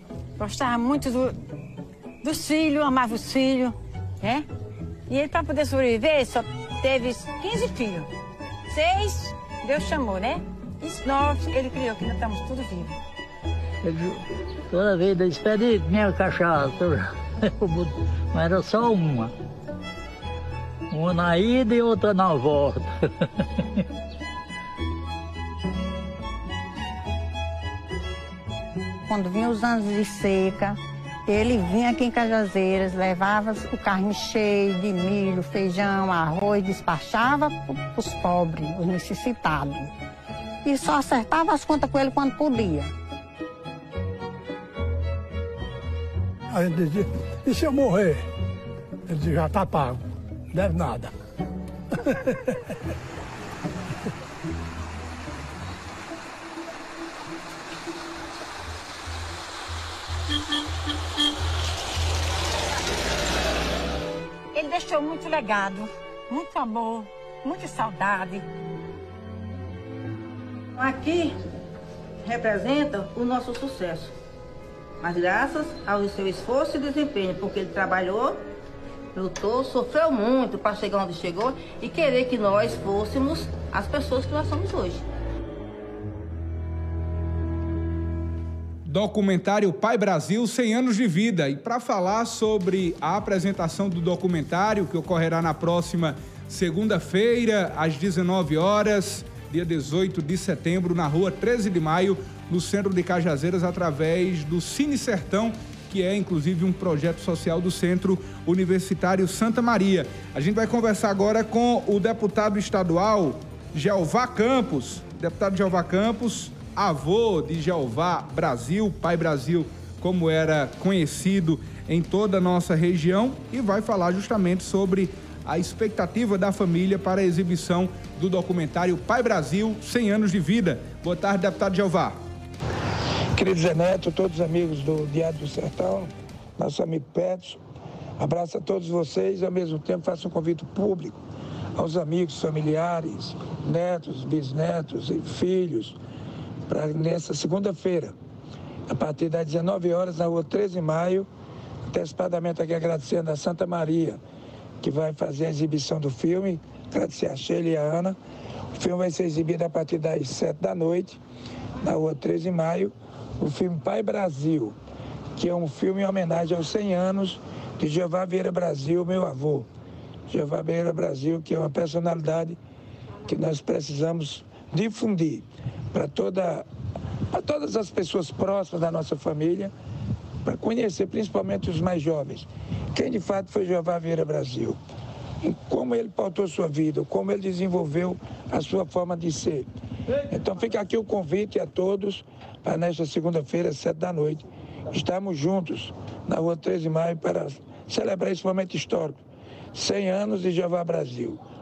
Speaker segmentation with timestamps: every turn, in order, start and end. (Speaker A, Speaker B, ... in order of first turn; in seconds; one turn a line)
Speaker A: 0.4-1.4
Speaker A: 2.2-4.5
Speaker A: 5.1-8.1
Speaker A: 8.7-13.0
Speaker B: 13.8-19.3
Speaker B: 20.9-23.3
Speaker C: 29.1-39.9
Speaker C: 40.6-42.9
Speaker D: 46.5-48.2
Speaker D: 49.1-51.1
Speaker A: 64.5-68.5
Speaker E: 70.8-71.4
Speaker E: 72.2-74.2
Speaker E: 75.0-78.5
Speaker E: 79.1-85.0
Speaker F: 88.9-132.2
Speaker G: 133.3-137.6
Speaker G: 138.2-141.2
Speaker G: 141.8-146.0
Speaker G: 146.7-148.2
Speaker G: 148.9-151.3
Speaker G: 151.9-154.2
Speaker G: 154.8-158.2
Speaker G: 158.8-161.2
Speaker G: 161.8-164.8
Speaker G: 165.3-169.7
Speaker G: 170.3-172.6
Speaker G: 173.3-176.7
Speaker G: 177.3-179.7
Speaker G: 180.4-184.8
Speaker G: 185.4-189.7
Speaker G: 190.3-199.2
Speaker G: 199.7-201.4